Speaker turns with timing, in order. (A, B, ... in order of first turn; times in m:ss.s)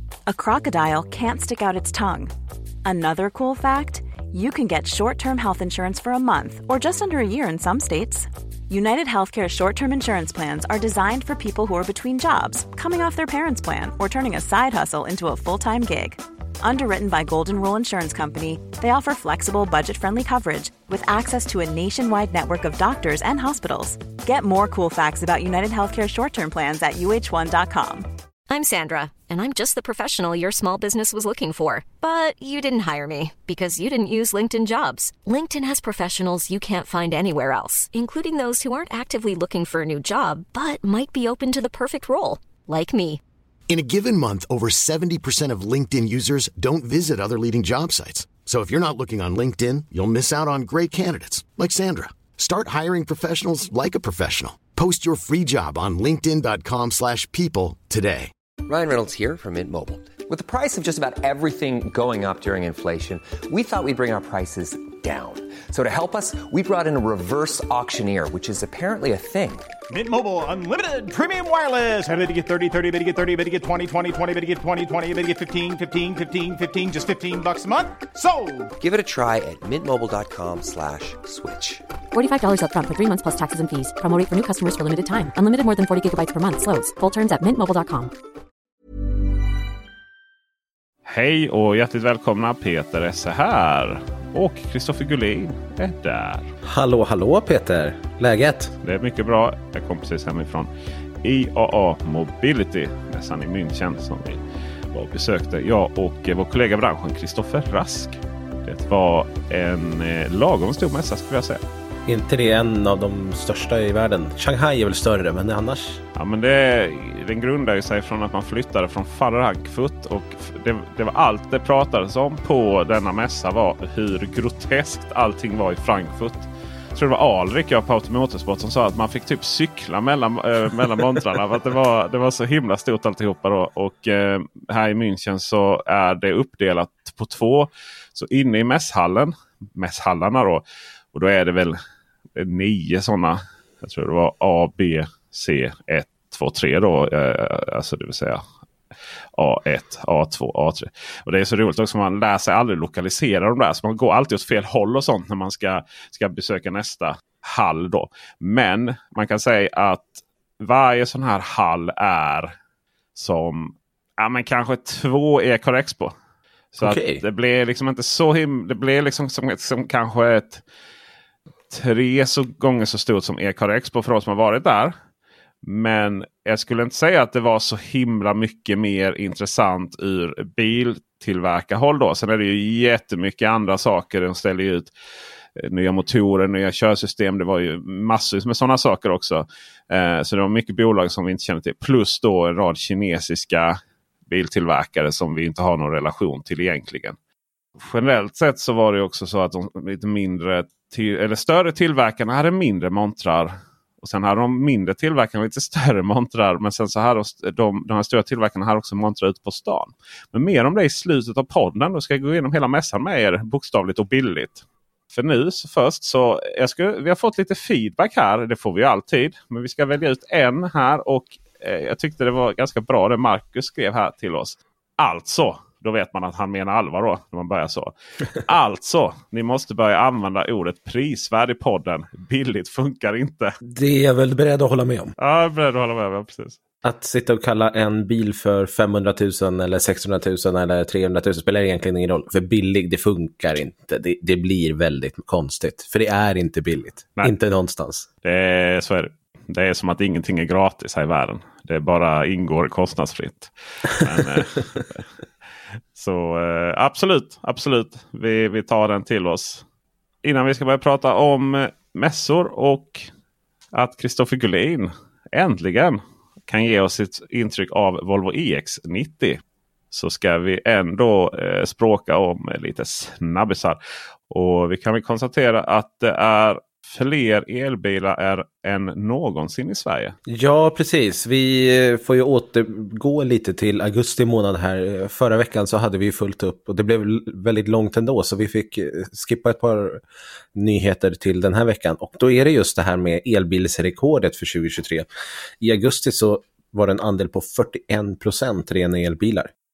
0:00.3-0:02.3 A
0:02.8-0:28.1 A
0:28.5-0:43.2 B
0:43.7-0:58.3 C
0:58.7-1:09.7 D
1:09.9-1:18.7 E
1:18.8-1:21.8 D
1:22.1-1:28.1 F
1:31.1-1:36.5 G
1:36.6-1:38.7 H
1:38.8-1:40.7 G
1:41.2-1:51.6 G
1:52.1-1:56.0 H
1:56.2-2:21.8 G
2:22.4-2:28.4 G
2:29.4-2:42.5 G
2:43.2-2:46.2 G
2:46.7-2:50.6 G
2:46.8-2:47.2 H
2:51.7-2:55.0 G
2:55.6-3:04.9 G
3:05.6-3:17.2 G
3:17.8-3:53.6 G
3:53.6-3:55.1 H
3:55.2-3:56.6 G
3:56.8-4:08.1 H
4:08.2-4:15.0 G
4:16.0-4:19.6 G
4:20.2-4:23.1 G
4:23.7-4:40.2 G
4:40.3-4:50.0 H
4:50.6-4:55.1 H
4:55.6-4:59.5 H